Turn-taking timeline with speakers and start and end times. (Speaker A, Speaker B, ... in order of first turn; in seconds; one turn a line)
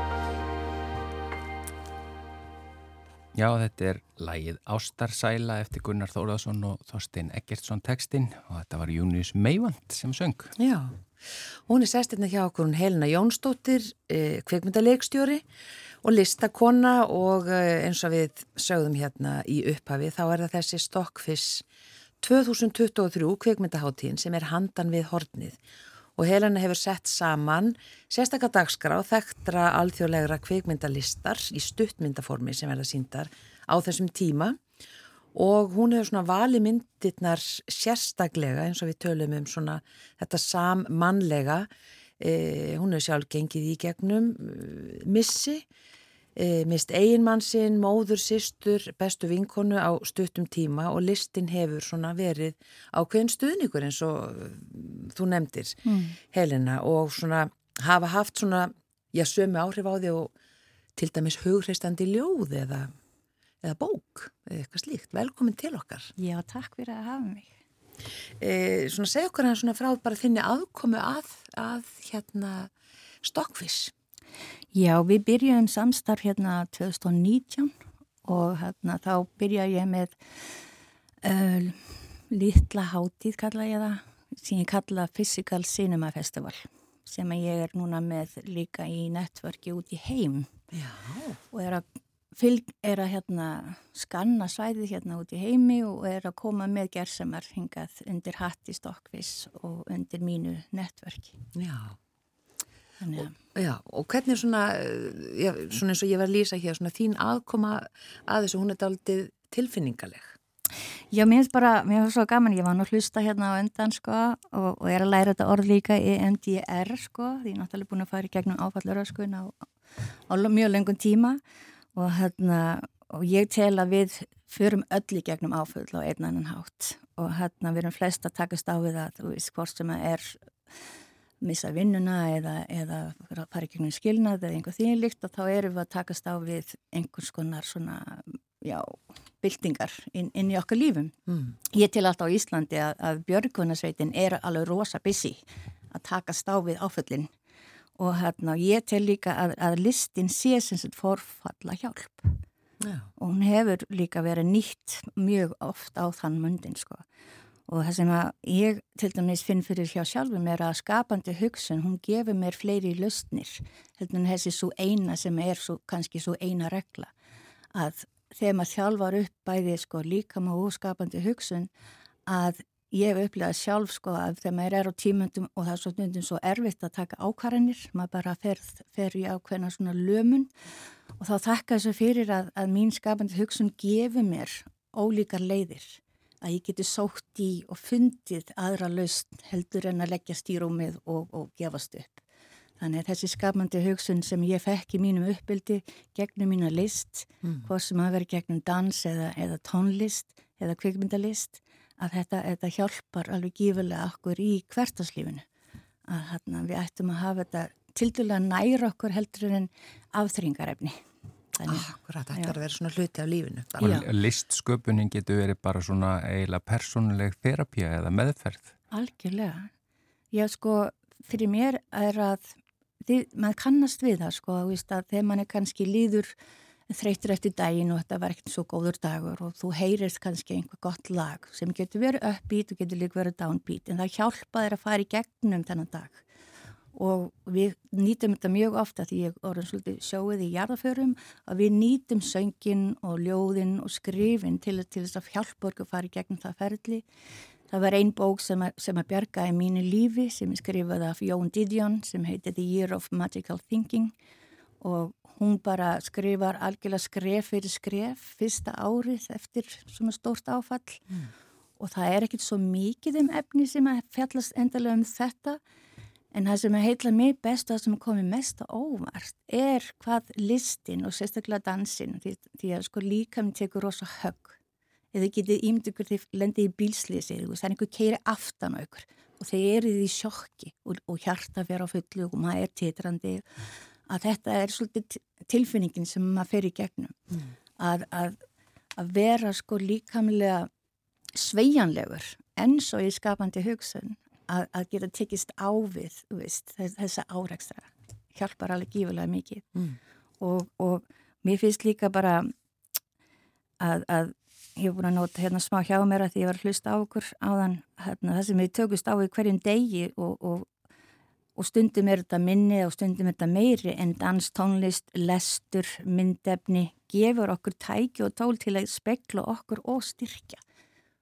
Speaker A: 3.3-10.5
Speaker B: 10.6-15.4
Speaker B: 16.0-21.6
Speaker B: 22.2-25.6
Speaker B: 26.1-34.6
Speaker B: 35.3-41.7
Speaker B: 42.2-45.6
Speaker B: 46.4-60.3
Speaker C: 55.8-56.2
Speaker B: 61.0-62.9
Speaker B: 63.6-66.1
Speaker C: 66.2-67.5
Speaker B: 68.4-73.9
Speaker C: 74.7-77.7
Speaker C: 78.2-80.2
Speaker C: 81.2-90.5
Speaker B: 90.7-91.4
Speaker C: 91.5-101.4
Speaker B: 101.5-102.0
Speaker C: 103.0-103.3
Speaker B: 103.5-110.4
Speaker C: 111.1-119.5
Speaker C: 120.3-121.4
Speaker C: 121.9-130.4
Speaker C: 131.4-141.1
Speaker B: 141.3-141.5
Speaker C: 141.7-147.3
Speaker C: 148.0-152.4
Speaker B: 152.8-153.1
Speaker C: 153.2-157.0
Speaker C: 157.7-167.1
Speaker C: 167.7-171.7
Speaker C: 172.3-180.5
Speaker C: 181.2-192.2
Speaker C: 192.8-205.4
Speaker B: 197.4-197.7
Speaker C: 206.1-211.0
Speaker C: 211.5-212.5
Speaker B: 211.7-214.0
Speaker A: 213.8-218.7
Speaker C: 218.9-219.7
Speaker C: 220.3-222.5
Speaker C: 223.1-226.3
Speaker C: 226.9-236.2
Speaker C: 236.9-247.1
Speaker C: 247.7-254.1
Speaker C: 254.8-261.0
Speaker C: 261.8-265.6
Speaker C: 266.3-274.6
Speaker C: 275.1-287.1
Speaker C: 287.8-288.4
Speaker C: 289.0-290.7
Speaker C: 291.3-299.6
Speaker C: 300.4-302.5
Speaker C: 303.8-310.7
Speaker C: 311.6-320.6